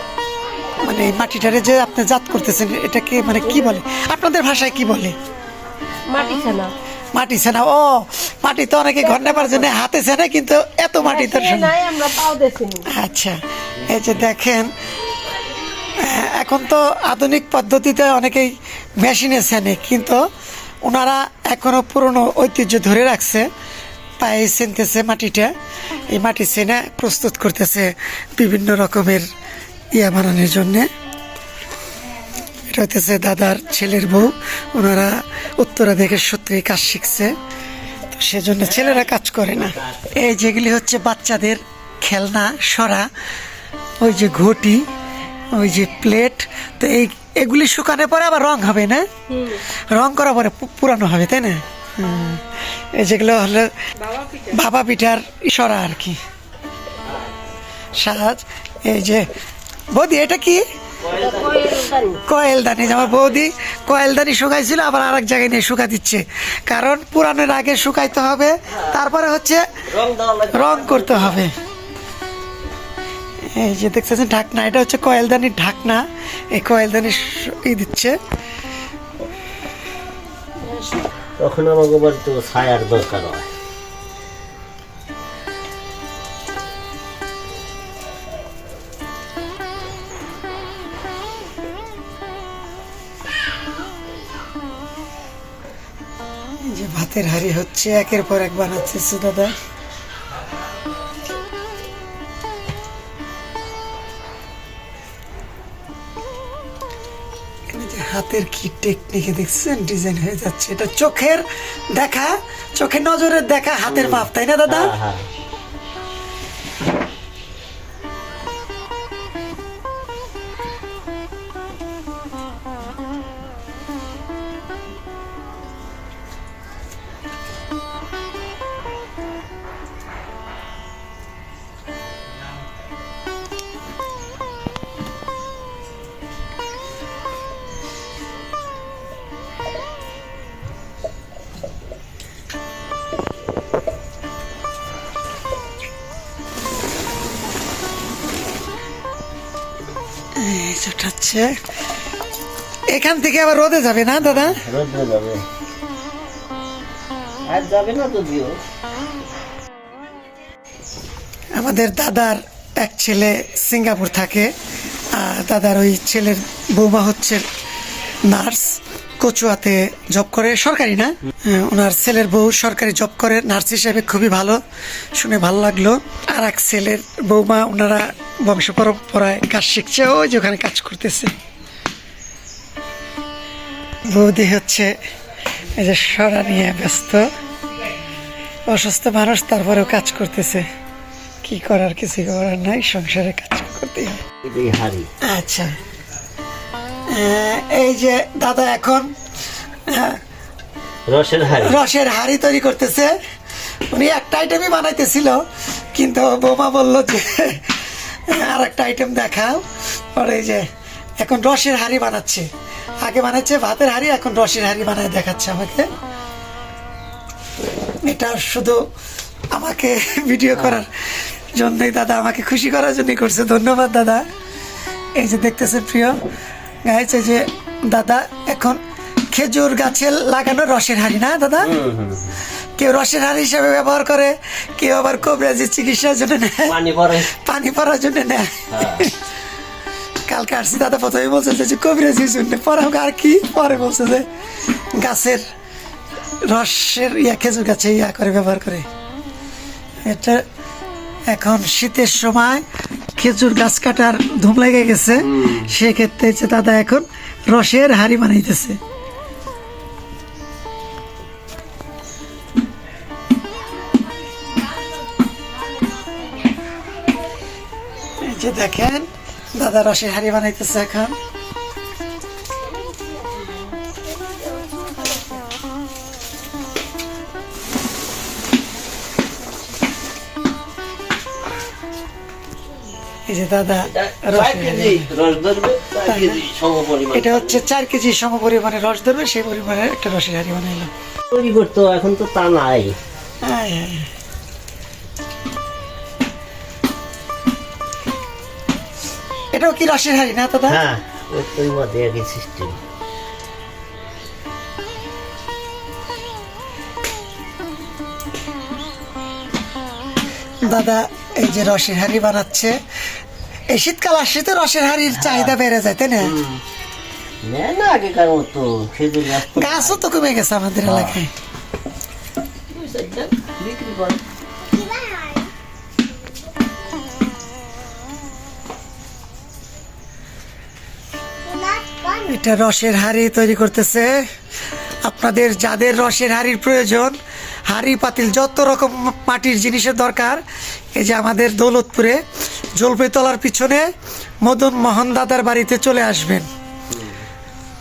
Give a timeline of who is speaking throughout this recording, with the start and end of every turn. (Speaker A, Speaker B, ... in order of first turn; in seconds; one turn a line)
Speaker A: 0.8-5.2
Speaker B: 3.5-3.8
Speaker B: 6.1-6.7
Speaker A: 7.1-11.8
Speaker B: 9.0-9.7
Speaker B: 11.0-12.9
Speaker A: 12.8-14.7
Speaker C: 13.8-14.2
Speaker A: 16.0-20.3
Speaker A: 20.8-23.5
Speaker A: 24.2-25.5
Speaker A: 26.1-29.2
Speaker A: 29.9-30.9
Speaker A: 32.7-37.3
Speaker A: 38.1-43.1
Speaker C: 38.6-40.1
Speaker A: 44.0-44.9
Speaker A: 45.5-53.7
Speaker B: 49.3-49.6
Speaker B: 54.0-54.5
Speaker A: 54.5-56.2
Speaker A: 57.9-59.3
Speaker A: 59.9-60.6
Speaker C: 61.0-62.0
Speaker B: 61.1-62.2
Speaker A: 62.2-69.7
Speaker C: 62.8-63.4
Speaker C: 68.7-69.0
Speaker C: 69.9-71.4
Speaker A: 70.5-71.5
Speaker A: 73.5-78.2
Speaker C: 81.4-83.5
Speaker A: 96.6-99.5
Speaker A: 107.7-114.9
Speaker C: 113.8-115.3
Speaker A: 150.3-151.6
Speaker A: 152.9-154.6
Speaker C: 154.2-155.4
Speaker C: 157.4-158.6
Speaker A: 161.5-164.5
Speaker A: 165.1-167.4
Speaker A: 168.2-174.6
Speaker A: 175.1-181.3
Speaker A: 184.1-184.9
Speaker A: 185.8-187.3
Speaker A: 188.7-190.7
Speaker A: 191.4-194.2
Speaker C: 194.4-195.1
Speaker A: 195.2-195.8
Speaker A: 197.1-199.1
Speaker A: 199.9-200.2
Speaker C: 201.1-201.8
Speaker A: 201.6-203.1
Speaker A: 203.9-205.4
Speaker A: 205.9-210.7
Speaker A: 211.2-212.5
Speaker A: 213.0-215.9
Speaker A: 218.0-218.8
Speaker A: 219.5-224.2
Speaker C: 220.5-220.8
Speaker A: 225.2-226.2
Speaker A: 226.8-228.8
Speaker A: 229.3-231.7
Speaker C: 231.6-232.4
Speaker A: 232.8-239.2
Speaker C: 236.7-237.3
Speaker C: 238.7-239.1
Speaker A: 240.3-244.3
Speaker A: 244.9-245.4
Speaker A: 246.4-248.9
Speaker A: 250.0-250.4
Speaker A: 251.3-252.6
Speaker A: 253.2-258.8
Speaker C: 255.2-255.7
Speaker A: 268.2-271.2
Speaker A: 283.3-285.1
Speaker C: 283.8-287.6
Speaker A: 286.1-286.4
Speaker A: 287.1-290.9
Speaker C: 291.3-293.0
Speaker A: 293.4-294.1
Speaker A: 299.5-300.8
Speaker C: 300.7-302.8
Speaker A: 310.6-312.8
Speaker A: 313.7-316.4
Speaker C: 315.1-315.6
Speaker C: 316.2-316.6
Speaker C: 317.4-320.1
Speaker A: 319.5-321.3
Speaker C: 320.8-321.2
Speaker C: 322.7-324.2
Speaker A: 331.9-334.3
Speaker A: 335.0-342.2
Speaker A: 342.8-346.5
Speaker C: 346.9-347.2